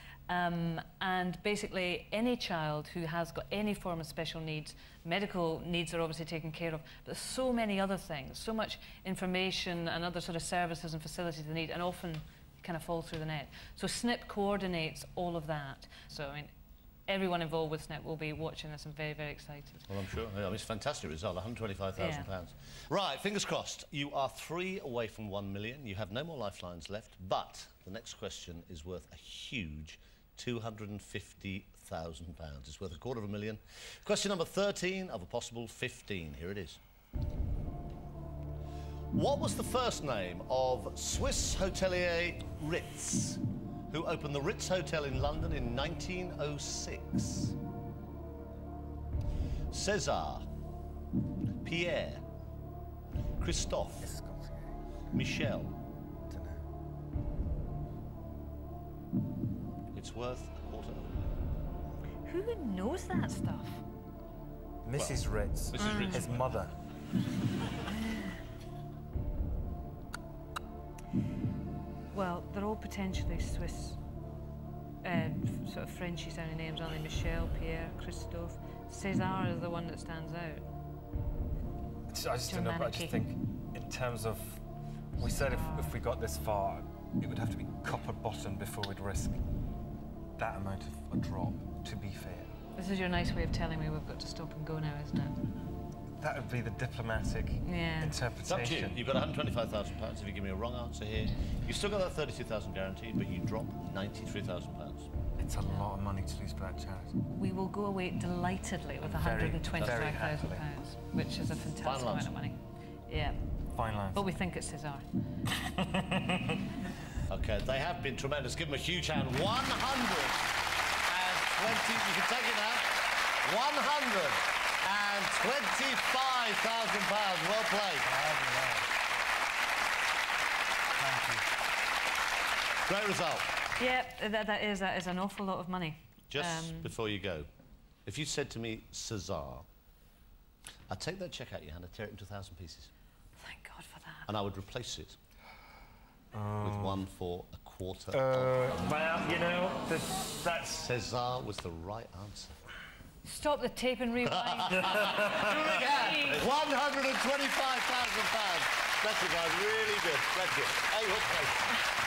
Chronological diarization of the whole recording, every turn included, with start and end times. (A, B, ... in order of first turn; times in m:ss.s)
0:00.3-0:16.5 A
0:17.1-0:19.9 A
0:19.9-0:36.8 B
0:22.0-0:22.3 A
0:39.1-0:47.6 B
0:49.7-0:50.5 B
0:51.6-0:52.2 B
0:53.4-0:54.1 B
0:54.0-0:54.7 C
0:55.1-0:55.7 B
0:56.3-0:56.6 C
0:59.9-1:01.3 B
1:02.3-1:03.8 A
1:04.8-1:06.7 C
1:05.0-1:05.2 B
1:05.7-1:06.6 B
1:05.8-1:06.2 A
1:07.9-1:08.4 A
1:12.1-1:14.0 A
1:15.0-1:20.7 A
1:22.1-1:24.6 C
1:22.5-1:23.2 A
1:25.2-1:29.4 C
1:25.2-1:26.0 A
1:30.4-1:32.5 C
1:32.8-1:35.5 A
1:36.2-1:39.0 C
1:37.6-1:38.2 A
1:38.4-1:45.1 B
1:45.4-1:47.2 C
1:45.6-1:45.9 A
1:47.3-1:53.4 A
1:49.0-1:50.7 C
1:51.8-1:52.3 B
1:53.7-1:54.3 C
1:54.1-1:55.0 A
1:55.6-1:56.6 C
1:57.3-2:00.5 B
2:01.1-2:08.1 B
2:08.1-2:08.9 C
2:11.0-2:11.5 C
2:12.9-2:13.5 B
2:13.8-2:16.9 A
2:16.3-2:17.5 B
2:18.1-2:19.7 B
2:20.9-2:22.9 B
2:23.4-2:24.3 A
2:24.3-2:25.2 B
2:26.3-2:27.0 C
2:26.6-2:29.1 B
2:28.1-2:30.8 C
2:30.7-2:32.6 B
2:33.2-2:36.4 A
2:34.2-2:41.8 B
2:35.0-2:35.5 C